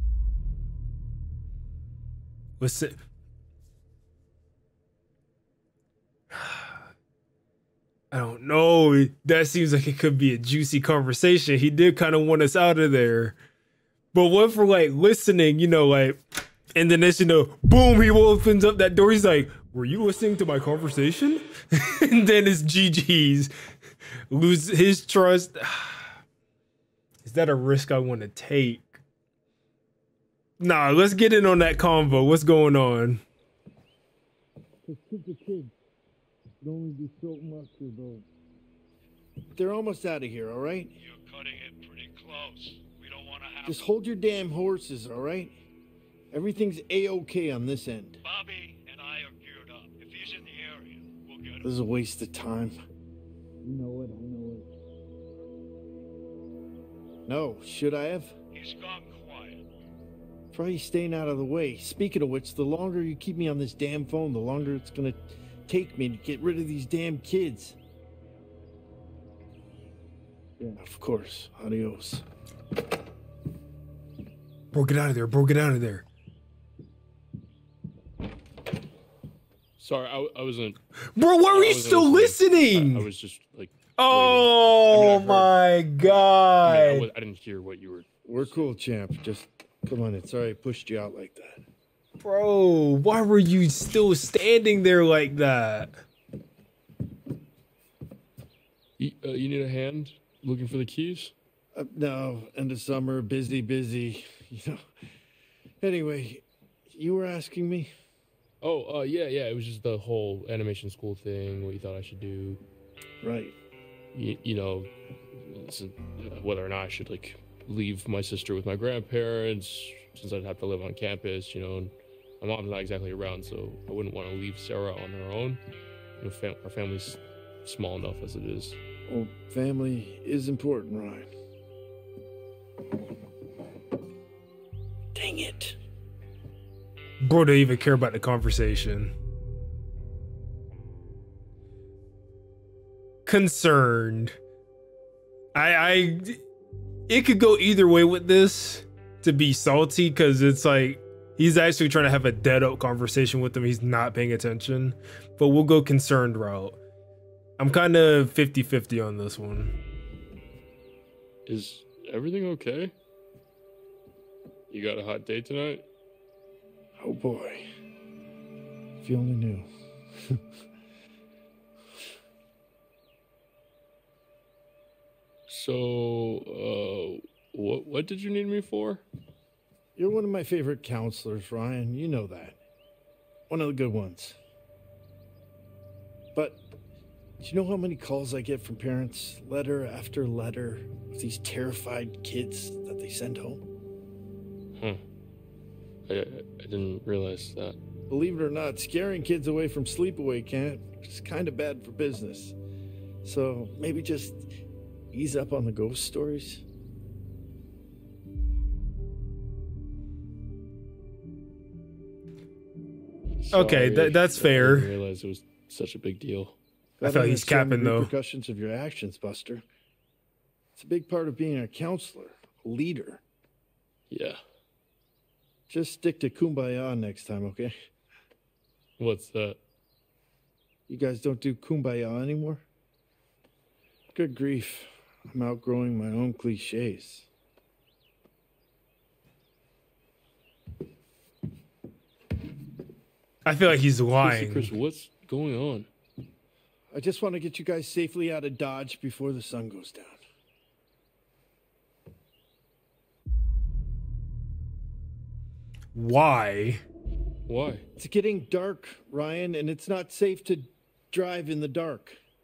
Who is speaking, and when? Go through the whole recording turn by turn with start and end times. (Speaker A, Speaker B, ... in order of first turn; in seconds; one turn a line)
Speaker A: 2.6-3.0
Speaker A: 6.3-6.8
Speaker A: 8.1-13.4
Speaker A: 14.1-16.2
Speaker A: 16.8-23.5
Speaker A: 24.3-26.2
Speaker A: 27.2-29.0
Speaker A: 30.6-33.2
Speaker B: 34.8-35.7
Speaker B: 36.6-38.2
Speaker B: 39.5-41.0
Speaker C: 41.0-43.9
Speaker B: 43.6-45.6
Speaker B: 46.3-48.2
Speaker C: 48.2-51.8
Speaker B: 51.6-52.8
Speaker B: 53.6-54.7
Speaker B: 57.3-58.4
Speaker C: 58.5-59.6
Speaker B: 60.5-67.8
Speaker B: 70.6-72.2
Speaker A: 74.7-76.0
Speaker D: 79.8-80.8
Speaker A: 81.2-83.1
Speaker D: 81.5-85.5
Speaker A: 84.0-87.1
Speaker D: 86.6-88.6
Speaker B: 88.2-91.6
Speaker A: 92.2-96.0
Speaker D: 99.0-101.3
Speaker B: 101.8-104.8
Speaker B: 105.8-107.9
Speaker D: 108.6-112.6
Speaker B: 113.2-113.6
Speaker D: 114.1-125.6
Speaker D: 126.2-128.8
Speaker B: 129.1-131.3
Speaker B: 135.1-135.8
Speaker A: 137.2-139.1
Speaker A: 143.3-144.4
Speaker A: 145.6-146.4
Speaker A: 147.1-156.8
Speaker A: 157.6-159.7
Speaker D: 161.5-162.9
Speaker D: 164.7-165.8
Speaker B: 167.0-167.6
Speaker B: 169.0-169.7
Speaker D: 175.5-179.1
Speaker B: 180.0-182.6
Speaker B: 183.5-184.4
Speaker B: 186.3-186.7
Speaker B: 187.4-193.6
Speaker D: 196.1-197.8
Speaker B: 198.1-202.6
Speaker B: 203.2-204.5
Speaker B: 205.1-206.6
Speaker D: 213.5-216.6
Speaker A: 213.5-214.9
Speaker B: 217.0-219.6
Speaker A: 217.0-218.1
Speaker B: 220.8-223.2
Speaker D: 224.1-224.4
Speaker B: 225.7-227.8
Speaker D: 229.0-229.6
Speaker B: 230.9-232.6
Speaker B: 234.1-237.3
Speaker A: 243.4-244.7
Speaker D: 244.2-245.9
Speaker B: 246.9-250.2
Speaker A: 255.9-256.8
Speaker D: 257.5-257.9
Speaker B: 258.0-262.2